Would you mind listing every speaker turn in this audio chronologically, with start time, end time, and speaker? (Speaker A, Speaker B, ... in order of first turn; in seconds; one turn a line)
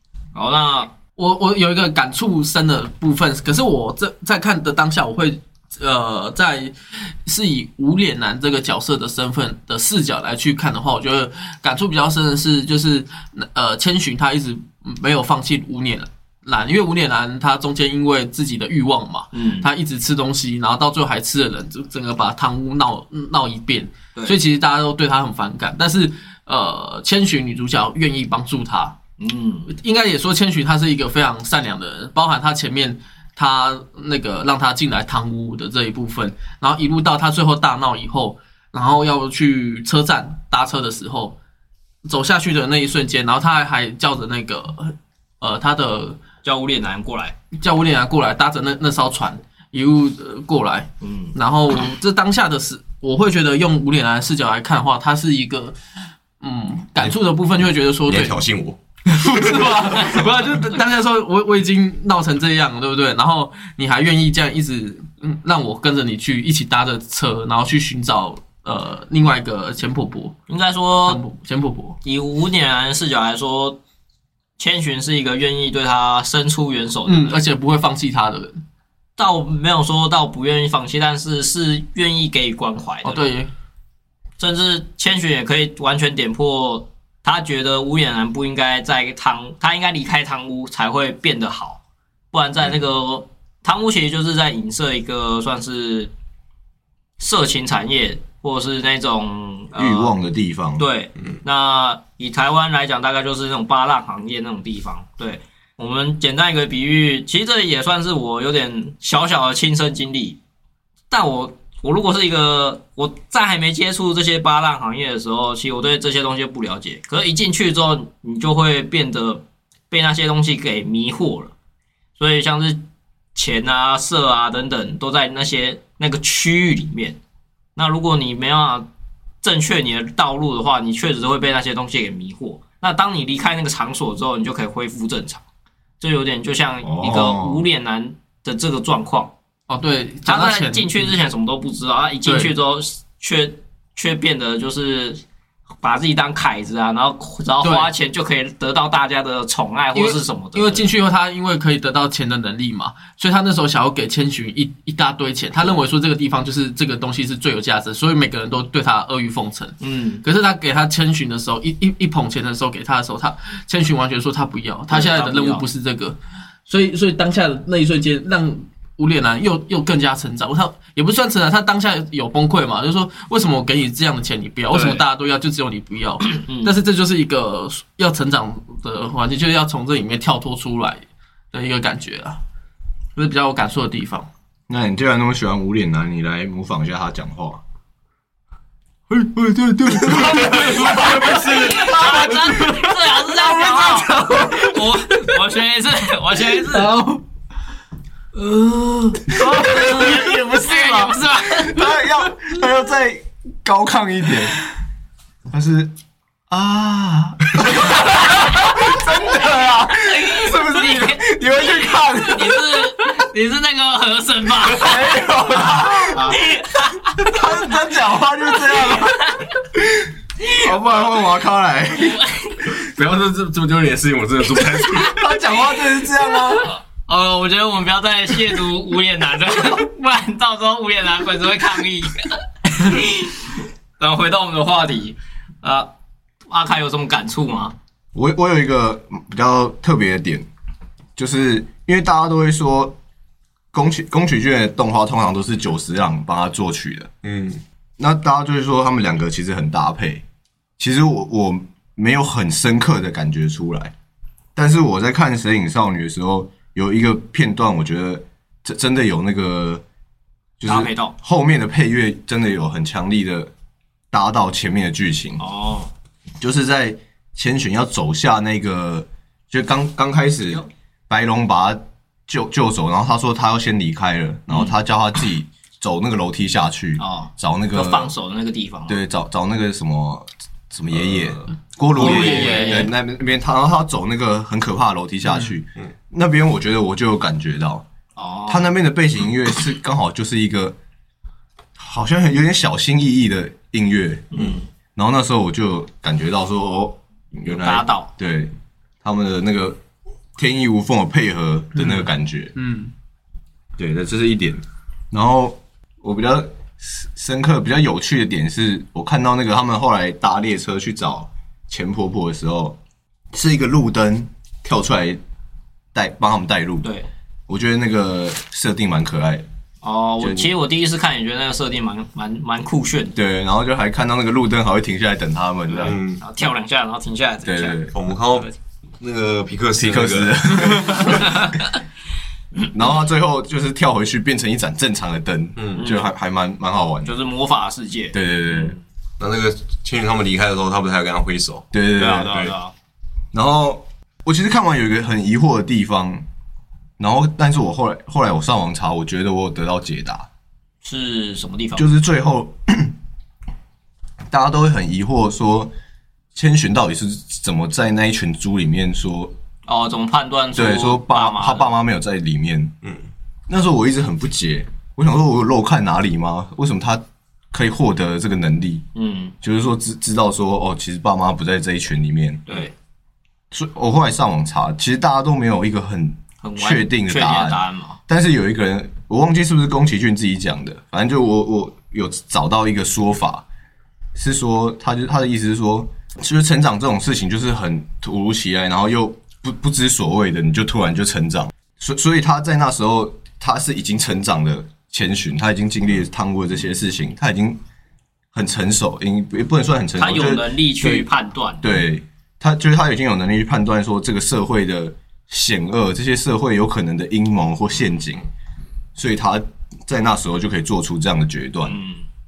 Speaker A: 0.3-0.9
Speaker B: 1.2-28.9
Speaker A: 19.3-19.7
Speaker A: 29.2-29.7
Speaker B: 29.7-41.4
Speaker B: 42.1-46.2
Speaker A: 46.4-47.4
Speaker B: 47.5-55.8
Speaker A: 51.0-51.4
Speaker B: 56.4-58.4
Speaker C: 58.1-59.6
Speaker B: 59.1-70.4
Speaker A: 70.5-71.2
Speaker B: 71.0-72.0
Speaker A: 72.0-73.8
Speaker A: 74.6-77.4
Speaker B: 77.0-78.6
Speaker A: 79.2-83.2
Speaker B: 83.0-83.5
Speaker A: 84.4-91.8
Speaker A: 92.3-96.1
Speaker A: 97.2-100.2
Speaker D: 99.7-100.9
Speaker A: 100.8-110.4
Speaker A: 111.1-121.5
Speaker A: 122.2-122.8
Speaker A: 123.3-127.2
Speaker A: 127.8-128.9
Speaker A: 129.4-135.4
Speaker A: 136.0-139.3
Speaker D: 136.8-137.6
Speaker B: 139.7-141.1
Speaker A: 140.2-145.2
Speaker B: 142.2-142.5
Speaker A: 145.8-150.9
Speaker B: 147.6-147.9
Speaker B: 149.9-182.4
Speaker A: 159.8-160.2
Speaker A: 164.9-165.6
Speaker A: 174.7-175.0
Speaker A: 176.2-176.8
Speaker B: 183.2-184.3
Speaker D: 184.7-187.6
Speaker D: 189.2-192.0
Speaker B: 189.9-195.4
Speaker A: 191.2-196.9
Speaker B: 196.7-197.2
Speaker B: 198.3-201.1
Speaker D: 199.4-200.4
Speaker A: 199.7-201.8
Speaker D: 201.6-204.6
Speaker D: 205.5-205.9
Speaker D: 206.5-212.8
Speaker A: 209.9-215.0
Speaker D: 214.8-216.4
Speaker A: 216.3-217.4
Speaker D: 217.2-222.7
Speaker A: 218.8-219.6
Speaker A: 220.4-220.7
Speaker A: 221.9-222.7
Speaker C: 222.8-225.2
Speaker D: 224.9-226.7
Speaker A: 227.1-235.9
Speaker A: 236.5-237.7
Speaker D: 238.1-240.5
Speaker D: 241.2-243.0
Speaker D: 243.7-247.1
Speaker C: 247.2-247.6
Speaker D: 248.0-250.2
Speaker D: 250.8-253.9
Speaker D: 254.6-259.8
Speaker D: 260.6-263.5
Speaker A: 260.6-261.1
Speaker D: 264.1-265.4
Speaker A: 265.4-265.9
Speaker D: 266.4-278.1
Speaker A: 277.0-279.0
Speaker D: 278.9-287.9
Speaker C: 281.0-281.5
Speaker B: 281.9-282.9
Speaker A: 281.9-282.9
Speaker C: 282.0-282.3
Speaker A: 288.1-288.7
Speaker D: 288.5-290.8
Speaker D: 291.8-298.5
Speaker A: 294.3-294.6
Speaker A: 297.4-298.1
Speaker D: 299.0-299.8
Speaker D: 300.4-302.5
Speaker B: 302.6-302.9
Speaker D: 303.8-312.8
Speaker D: 313.3-315.2
Speaker D: 315.9-316.9
Speaker A: 316.8-317.1
Speaker D: 317.5-319.4
Speaker A: 319.8-323.2
Speaker D: 320.2-320.5
Speaker D: 323.1-326.0
Speaker A: 325.7-327.8
Speaker C: 325.8-326.2
Speaker D: 327.4-327.9
Speaker C: 327.9-328.5
Speaker C: 329.0-330.9
Speaker D: 329.8-331.4
Speaker D: 332.7-337.1
Speaker C: 335.6-335.8
Speaker A: 335.8-336.1
Speaker A: 337.0-338.8
Speaker D: 338.1-338.8
Speaker C: 339.2-341.7
Speaker D: 341.7-342.4
Speaker A: 342.0-342.7
Speaker D: 343.3-346.2
Speaker D: 347.0-350.3
Speaker A: 350.8-351.9
Speaker D: 351.8-352.9
Speaker D: 354.3-355.7
Speaker D: 356.3-359.3
Speaker A: 359.6-361.7
Speaker D: 360.5-362.8
Speaker D: 363.5-368.8
Speaker A: 368.9-369.3
Speaker D: 369.4-372.6
Speaker A: 372.5-372.7
Speaker D: 373.5-383.4
Speaker A: 376.4-378.0
Speaker D: 384.1-397.6
Speaker D: 398.3-401.1
Speaker A: 400.0-401.8
Speaker D: 401.6-408.3
Speaker D: 408.9-411.8
Speaker A: 411.6-412.0